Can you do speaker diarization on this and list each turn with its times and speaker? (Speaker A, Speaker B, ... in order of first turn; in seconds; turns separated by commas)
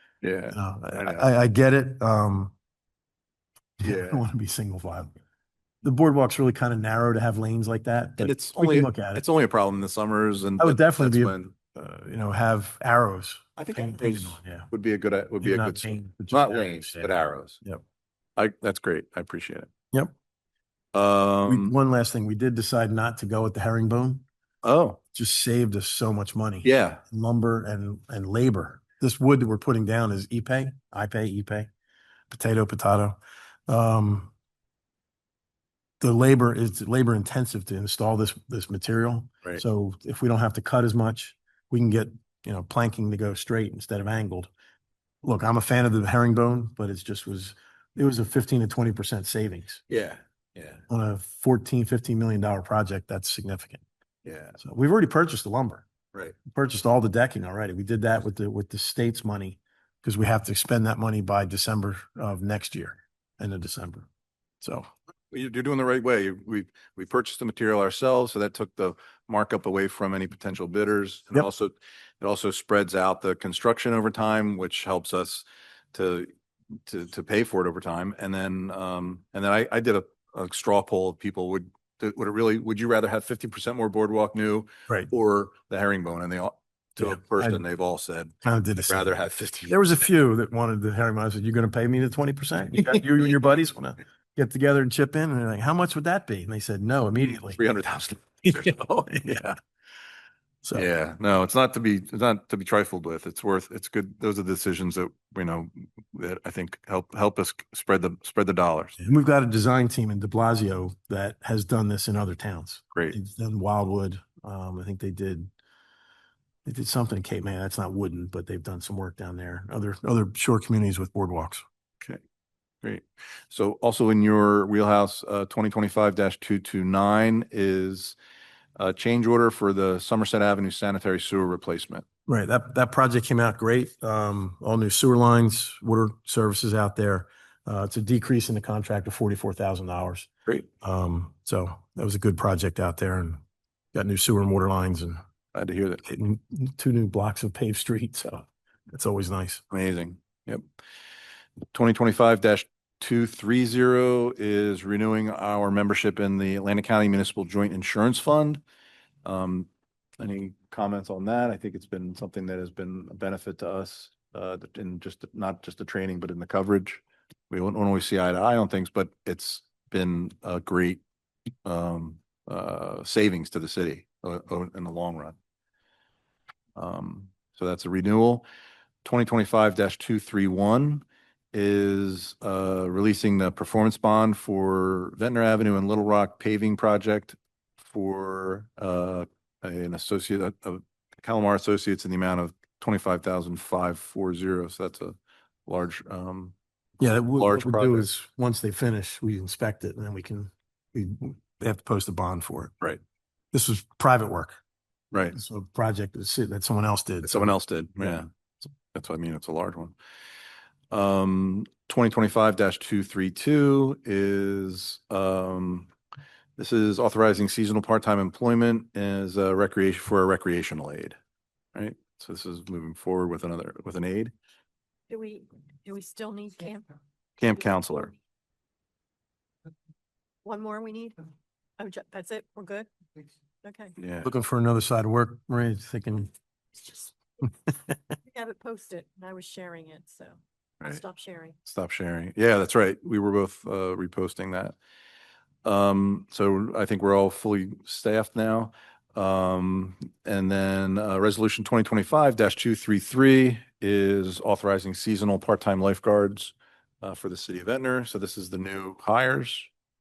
Speaker A: 0.2-1.3, Speaker B: 0.5-2.5, Speaker A: 3.8-4.2, Speaker B: 3.8-5.1, Speaker B: 5.8-9.2, Speaker A: 8.2-11.5, Speaker B: 10.6-14.7, Speaker A: 13.6-17.6, Speaker B: 15.4-17.8, Speaker A: 18.4-19.7, Speaker A: 20.9-21.7, Speaker B: 21.5-24.2, Speaker A: 24.6-25.0, Speaker B: 25.1-31.7, Speaker A: 26.6-27.0, Speaker B: 32.3-34.3, Speaker B: 36.0-44.5, Speaker B: 45.2-49.8, Speaker A: 49.9-50.8, Speaker B: 50.9-53.8, Speaker A: 54.2-54.6, Speaker B: 54.6-55.9, Speaker B: 56.5-64.1, Speaker B: 64.6-64.9, Speaker A: 65.3-76.3, Speaker A: 76.9-88.3, Speaker B: 87.0-87.6, Speaker B: 88.4-89.1, Speaker A: 88.9-89.7, Speaker B: 89.7-97.6, Speaker A: 97.3-99.5, Speaker B: 98.5-99.6, Speaker A: 100.7-109.0, Speaker B: 109.0-115.5, Speaker B: 116.7-121.6, Speaker A: 122.8-128.2, Speaker A: 128.8-132.1, Speaker B: 132.3-140.3, Speaker B: 140.8-143.4, Speaker B: 143.9-145.2, Speaker A: 145.5-146.0, Speaker B: 146.0-149.6, Speaker A: 149.7-150.6, Speaker A: 151.7-158.6, Speaker A: 159.2-171.0, Speaker A: 171.7-175.4, Speaker A: 176.8-178.5, Speaker A: 179.1-196.6, Speaker B: 197.0-202.7, Speaker A: 197.3-198.1, Speaker B: 203.5-204.6, Speaker B: 205.3-208.2, Speaker A: 207.2-209.9, Speaker A: 210.9-215.9, Speaker A: 216.6-221.2, Speaker A: 221.7-224.3, Speaker C: 225.1-226.9, Speaker A: 227.4-228.1, Speaker C: 230.4-231.2, Speaker C: 231.8-232.9, Speaker C: 233.6-234.0, Speaker A: 234.0-234.3, Speaker B: 234.2-236.3, Speaker C: 236.8-237.1, Speaker C: 238.3-241.6, Speaker A: 241.7-244.8, Speaker A: 245.7-259.7